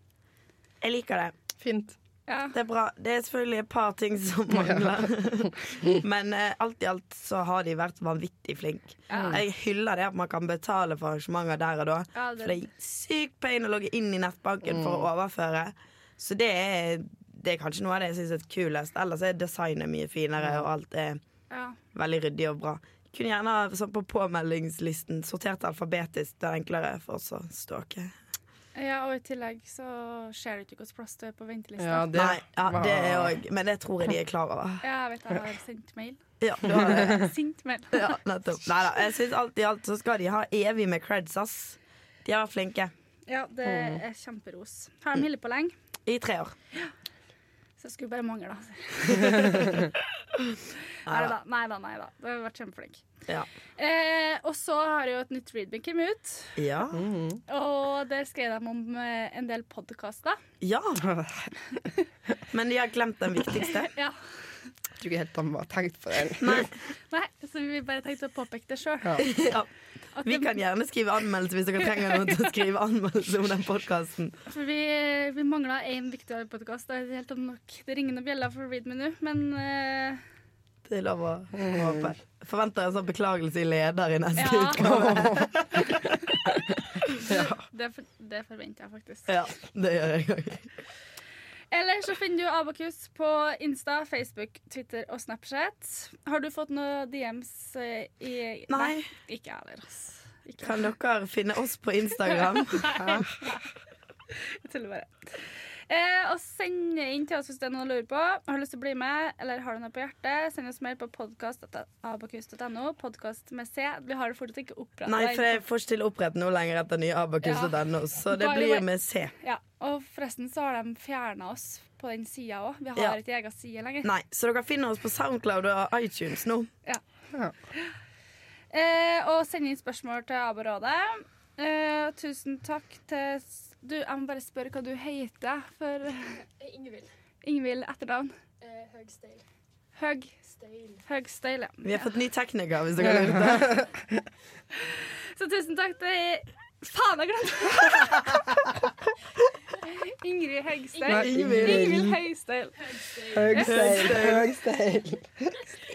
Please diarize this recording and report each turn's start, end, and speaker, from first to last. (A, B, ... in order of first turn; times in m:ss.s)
0:00.8-0:01.3 A
0:01.6-0:02.0 B
0:02.3-0:02.5 C
0:02.5-0:21.2 A
0:04.5-0:05.0 B
0:09.1-0:09.4 C
0:09.1-0:09.4 B
0:12.1-0:12.6 C
0:14.7-0:15.0 B
0:21.5-0:21.8 C
0:21.9-0:28.1 A
0:28.8-0:32.1 C
0:31.8-0:33.4 B
0:32.1-0:34.8 A
0:34.8-0:38.2 C
0:36.4-0:37.3 A
0:36.7-0:37.2 B
0:37.9-0:42.9 A
0:43.3-0:45.7 C
0:43.7-0:44.0 B
0:46.0-0:46.5 A
0:47.8-0:49.9 C
0:51.0-0:51.4 A
0:51.0-0:53.0 C
0:53.8-0:56.6 C
0:56.6-0:57.0 A
0:56.9-0:57.4 B
0:57.5-1:00.4 C
1:00.6-1:01.0 A
1:01.0-1:01.8 B
1:02.5-1:03.9 A
1:03.7-1:04.2 C
1:05.0-1:06.7 B
1:06.4-1:06.7 A
1:07.1-1:09.3 C
1:09.2-1:09.7 A
1:10.2-1:10.5 C
1:10.2-1:14.4 A
1:11.9-1:12.5 C
1:14.5-1:20.2 C
1:20.8-1:26.1 A
1:21.6-1:22.0 B
1:24.4-1:25.1 C
1:24.8-1:25.5 B
1:27.2-1:29.3 C
1:27.3-1:27.6 B
1:29.3-1:30.7 A
1:31.7-1:40.8 C
1:38.7-1:39.1 A
1:40.6-1:43.3 A
1:42.3-1:43.6 C
1:44.3-1:55.6 C
1:55.0-1:59.3 A
1:57.4-1:57.7 C
1:58.3-1:58.9 C
1:59.4-2:04.1 C
2:04.0-2:06.7 A
2:08.7-2:16.4 C
2:16.3-2:17.1 D
2:17.4-2:18.3 C
2:18.6-2:19.4 D
2:20.0-2:20.3 C
2:20.4-2:21.0 D
2:21.0-2:22.1 C
2:21.8-2:23.8 A
2:23.0-2:24.2 B
2:24.8-2:28.5 C
2:28.0-2:28.4 A
2:29.8-2:33.8 C
2:30.9-2:31.7 D
2:31.1-2:32.2 B
2:31.3-2:32.0 A
2:32.9-2:33.5 D
2:33.3-2:35.6 B
2:33.6-2:34.5 A